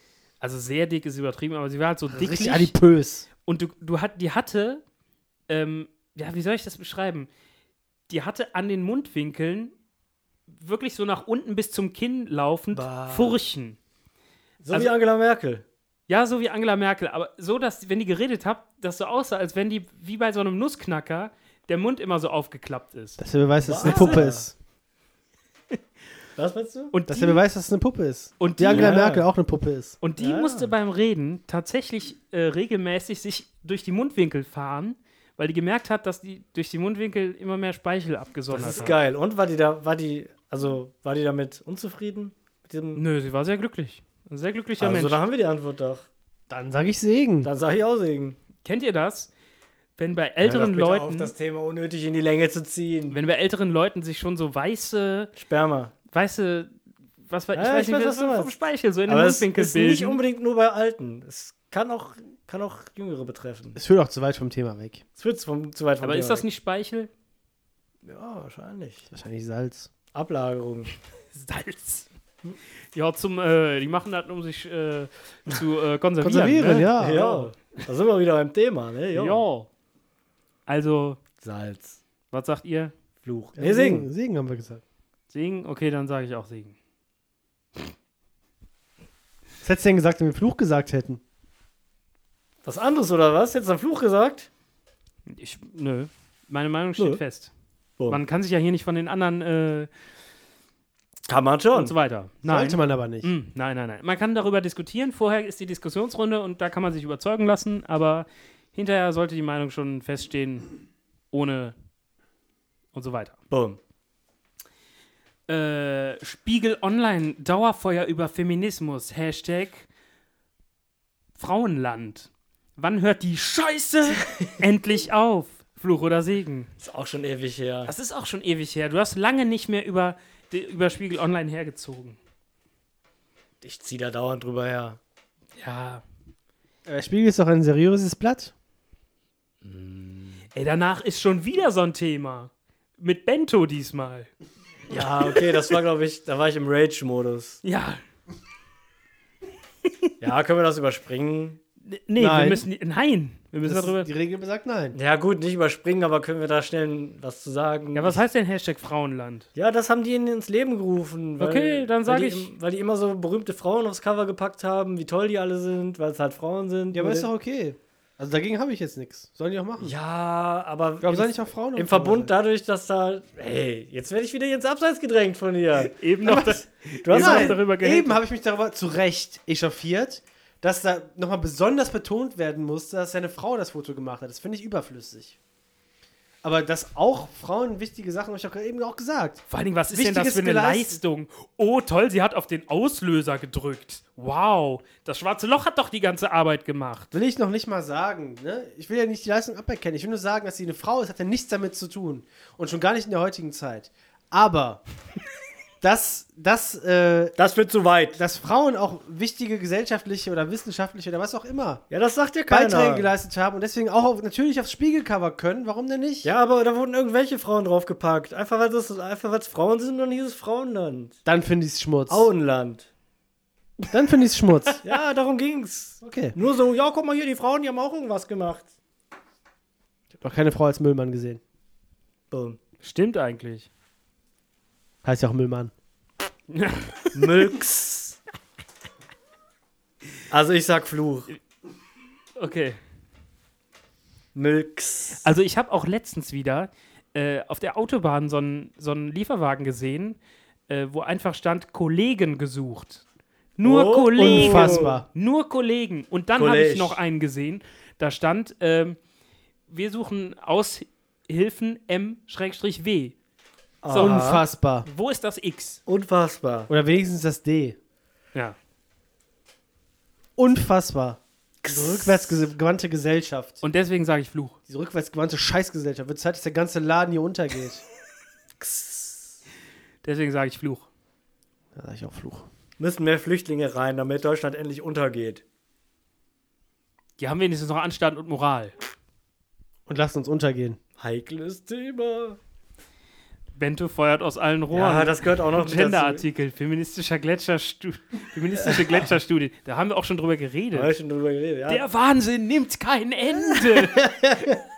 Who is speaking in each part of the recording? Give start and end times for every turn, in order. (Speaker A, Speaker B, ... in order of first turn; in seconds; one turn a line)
Speaker A: 0.4-2.7
Speaker B: 2.1-3.3
Speaker A: 3.5-4.8
Speaker A: 5.5-7.3
Speaker A: 8.1-9.7
Speaker A: 10.5-13.8
Speaker C: 12.7-13.4
Speaker C: 14.6-15.6
Speaker A: 16.1-23.2
Speaker B: 23.2-24.5
Speaker C: 23.6-24.4
Speaker A: 23.8-24.2
Speaker C: 26.4-26.9
Speaker A: 26.9-27.4
Speaker B: 27.1-30.0
Speaker A: 28.4-29.1
Speaker C: 28.7-29.2
Speaker A: 30.0-39.0
Speaker C: 30.2-30.7
Speaker C: 38.5-43.0
Speaker A: 42.9-45.2
Speaker C: 44.8-46.1
Speaker B: 46.5-47.5
Speaker C: 47.4-48.4
Speaker A: 48.6-49.3
Speaker A: 50.0-51.3
Speaker C: 50.4-53.2
Speaker A: 53.1-55.3
Speaker C: 55.4-55.9
Speaker A: 56.1-56.7
Speaker A: 57.3-60.2
Speaker C: 57.5-58.5
Speaker C: 59.0-63.8
Speaker B: 63.8-65.0
Speaker C: 65.2-66.4
Speaker A: 66.0-67.1
Speaker C: 68.0-69.1
Speaker B: 69.1-69.9
Speaker C: 70.1-70.9
Speaker A: 71.3-72.1
Speaker A: 72.9-77.4
Speaker B: 76.2-77.3
Speaker C: 77.0-79.4
Speaker A: 79.1-79.7
Speaker A: 80.7-81.2
Speaker C: 81.4-82.0
Speaker A: 82.3-82.9
Speaker C: 83.2-84.1
Speaker B: 83.6-84.8
Speaker A: 85.3-86.8
Speaker B: 89.6-91.2
Speaker C: 92.6-94.5
Speaker A: 95.3-97.5
Speaker A: 98.1-99.9
Speaker C: 101.3-101.9
Speaker A: 101.7-110.7
Speaker B: 102.5-103.3
Speaker A: 111.3-111.7
Speaker A: 112.9-113.3
Speaker C: 113.5-113.8
Speaker A: 115.5-119.9
Speaker A: 121.4-126.7
Speaker C: 124.2-124.5
Speaker C: 126.8-127.9
Speaker A: 127.9-132.2
Speaker C: 133.6-135.0
Speaker A: 135.6-136.0
Speaker B: 136.8-138.5
Speaker C: 139.6-140.4
Speaker A: 140.5-144.3
Speaker C: 144.9-147.6
Speaker A: 147.6-148.0
Speaker C: 150.2-151.6
Speaker A: 151.8-154.1
Speaker B: 152.2-152.7
Speaker B: 153.6-155.0
Speaker C: 154.9-158.2
Speaker A: 157.9-159.5
Speaker C: 159.5-167.3
Speaker A: 161.4-162.5
Speaker B: 166.9-169.9
Speaker C: 169.8-177.6
Speaker B: 171.0-172.3
Speaker A: 175.9-178.2
Speaker B: 177.1-185.3
Speaker B: 186.4-189.4
Speaker A: 189.5-197.1
Speaker B: 189.9-191.0
Speaker B: 197.1-204.8
Speaker B: 205.8-207.3
Speaker C: 207.4-208.2
Speaker B: 208.2-211.8
Speaker C: 211.9-213.1
Speaker B: 212.5-216.3
Speaker C: 216.2-221.2
Speaker B: 221.2-222.3
Speaker C: 222.1-222.9
Speaker B: 223.9-224.8
Speaker C: 224.8-228.7
Speaker B: 226.0-226.3
Speaker B: 230.2-231.4
Speaker C: 232.3-232.6
Speaker A: 232.8-233.7
Speaker B: 235.0-235.7
Speaker A: 236.5-237.4
Speaker C: 237.1-238.2
Speaker C: 240.3-241.3
Speaker A: 242.4-242.8
Speaker C: 244.3-245.2
Speaker A: 245.2-253.0
Speaker A: 253.6-259.0
Speaker C: 253.6-255.0
Speaker B: 254.2-255.1
Speaker C: 256.4-257.0
Speaker A: 259.7-263.1
Speaker C: 263.8-264.4
Speaker A: 263.9-264.3
Speaker B: 263.9-264.9
Speaker A: 264.9-265.8
Speaker C: 265.9-266.7
Speaker B: 266.7-267.8
Speaker B: 270.4-273.6
Speaker C: 271.6-272.5
Speaker A: 273.6-274.6
Speaker B: 274.7-277.8
Speaker C: 278.6-279.3
Speaker A: 280.0-280.9
Speaker B: 281.7-282.5
Speaker C: 282.8-285.4
Speaker A: 287.2-288.7
Speaker B: 289.9-290.8
Speaker C: 291.0-292.4
Speaker A: 293.5-300.9
Speaker C: 294.7-296.2
Speaker C: 298.6-299.0
Speaker C: 300.7-301.8
Speaker A: 301.7-304.1
Speaker C: 303.8-304.6